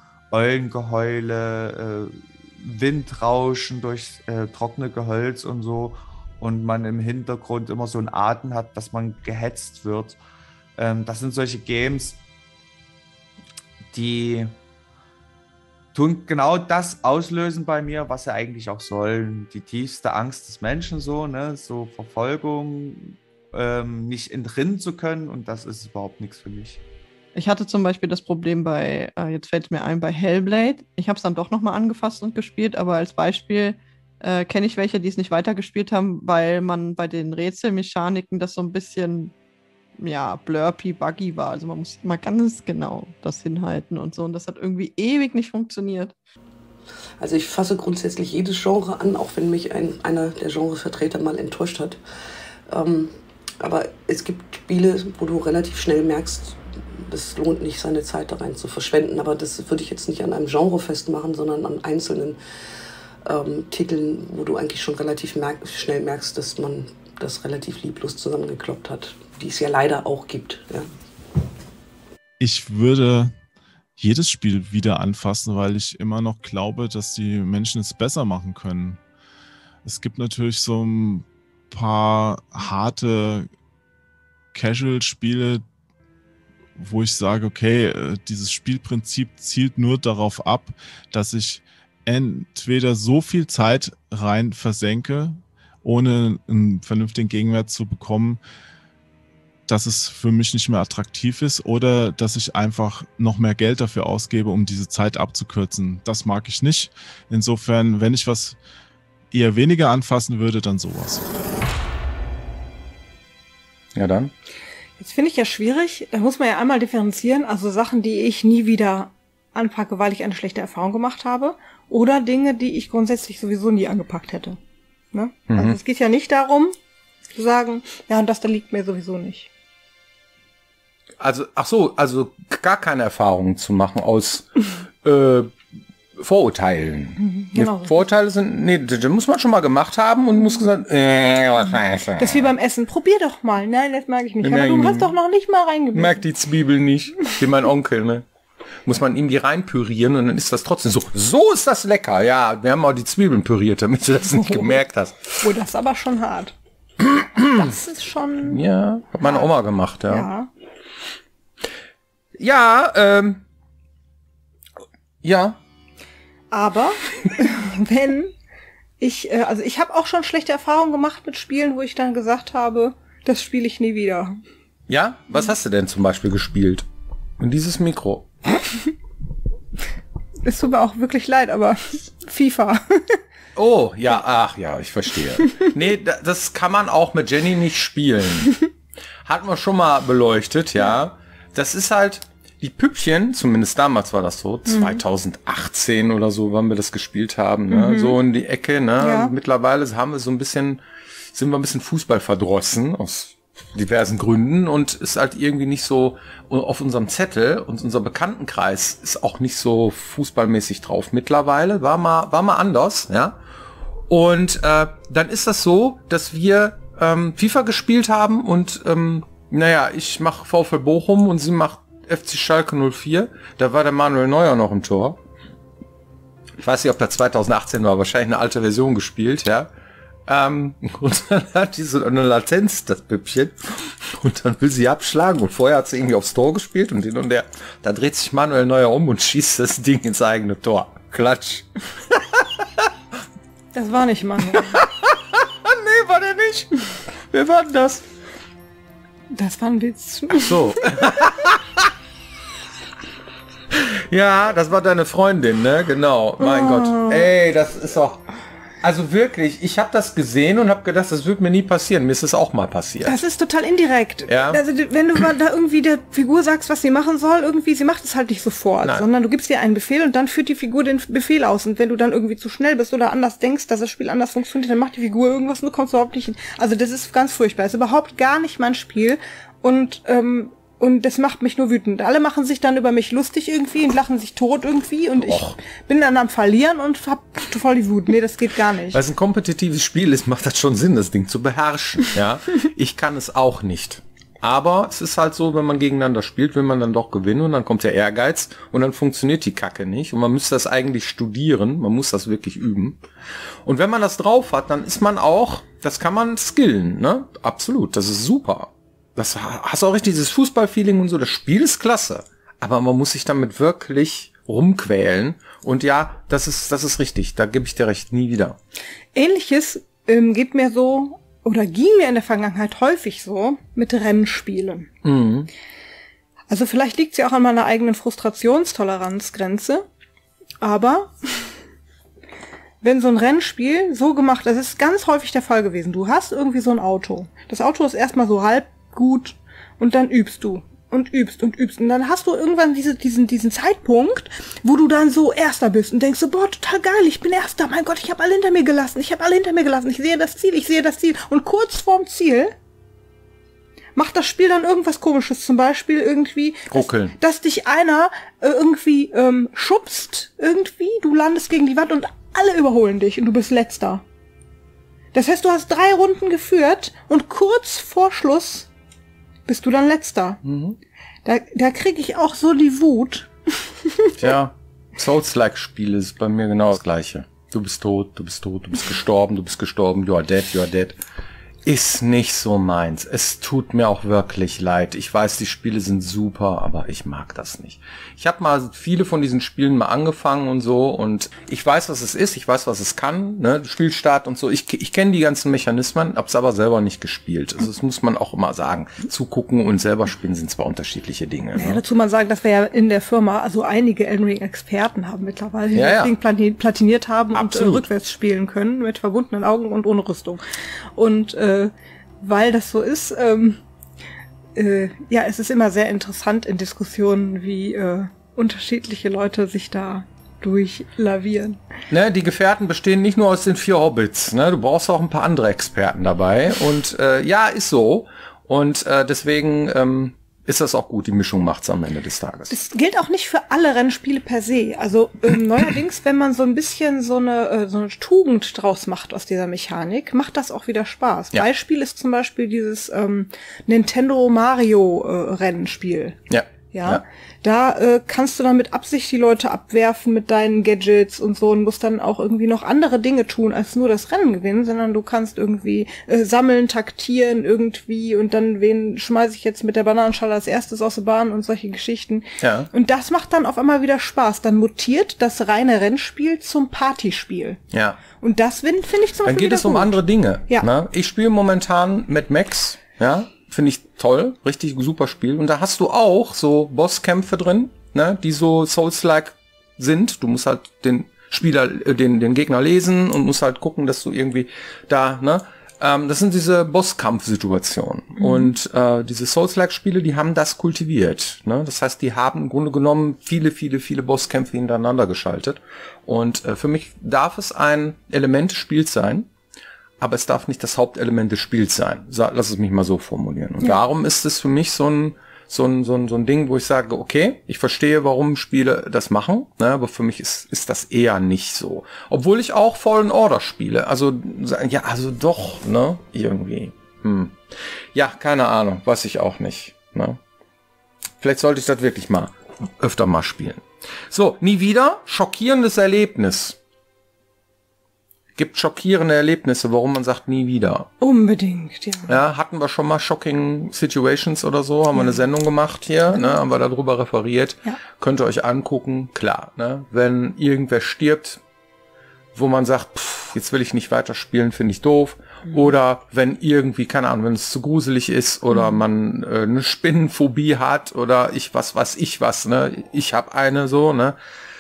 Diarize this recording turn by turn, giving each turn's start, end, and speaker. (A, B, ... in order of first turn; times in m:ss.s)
0:00.3-0:10.2 A
0:10.8-0:12.2 A
0:13.9-0:14.6 A
0:15.9-0:26.8 A
0:27.4-0:39.3 B
0:40.0-0:46.1 B
0:47.2-0:52.0 C
0:52.7-1:02.4 C
1:03.2-1:10.9 C
1:12.4-1:13.4 D
1:14.0-1:19.0 D
1:19.8-1:23.5 D
1:24.5-1:25.6 D
1:26.8-1:38.4 D
1:39.7-1:48.6 D
1:49.3-1:51.3 D
1:54.0-1:54.3 E
1:55.0-2:04.6 F
2:05.1-2:06.7 F
2:05.5-2:05.8 E
2:07.3-2:09.5 F
2:11.2-2:14.5 E
2:15.0-2:15.5 E
2:16.2-2:22.5 E
2:17.2-2:18.0 F
2:22.2-2:26.2 F
2:24.4-2:25.1 E
2:25.9-2:28.2 E
2:28.9-2:35.4 E
2:34.4-2:34.8 F
2:35.4-2:36.6 F
2:37.0-2:37.7 E
2:37.4-2:38.6 F
2:38.4-2:40.3 E
2:39.2-2:39.5 F
2:40.1-2:40.5 F
2:42.4-2:43.4 E
2:45.2-2:45.6 E
2:46.5-2:48.3 F
2:49.0-2:54.4 F
2:54.9-2:56.9 E
2:57.4-2:58.3 E
3:00.4-3:03.2 F
3:03.6-3:08.6 E
3:09.2-3:20.8 E
3:14.7-3:15.0 F
3:17.7-3:18.2 F
3:19.0-3:19.3 F
3:21.3-3:33.4 E
3:34.1-3:45.2 E
3:46.6-3:49.7 E
3:50.2-4:02.6 E
4:03.7-4:04.8 F
4:04.5-4:08.1 E
4:09.3-4:11.1 F
4:10.3-4:11.9 E
4:13.7-4:18.2 E
4:16.4-4:17.3 F
4:18.8-4:23.2 E
4:23.0-4:49.0 F
4:24.3-4:24.6 E
4:45.2-4:45.6 E
4:48.9-5:03.0 E
5:03.6-5:18.6 E
5:19.2-5:24.9 F
5:25.0-5:25.5 E
5:26.5-5:29.8 F
5:30.6-5:31.1 F
5:32.8-5:52.5 F
5:54.0-6:04.0 F
5:56.7-5:57.2 E
6:05.1-6:08.7 F
6:09.5-6:10.4 F
6:10.4-6:10.8 E
6:11.2-6:14.1 F
6:14.2-6:21.0 E
6:21.6-6:41.8 E
6:41.5-6:50.4 F
6:45.7-6:46.1 E
6:47.3-6:47.9 E
6:51.0-6:53.6 F
6:54.6-7:01.6 F
7:01.9-7:12.6 E
7:12.5-7:26.2 F
7:26.3-7:27.0 E
7:26.7-7:47.6 F
7:42.4-7:42.7 E
7:47.7-7:48.0 E
7:48.2-7:50.7 F
7:49.2-8:19.3 E
8:20.0-8:37.4 E
8:37.9-8:40.2 E
8:41.2-8:46.6 E
8:48.4-8:50.9 E
8:51.0-8:52.2 F
8:52.1-9:01.4 E
9:02.3-9:14.2 E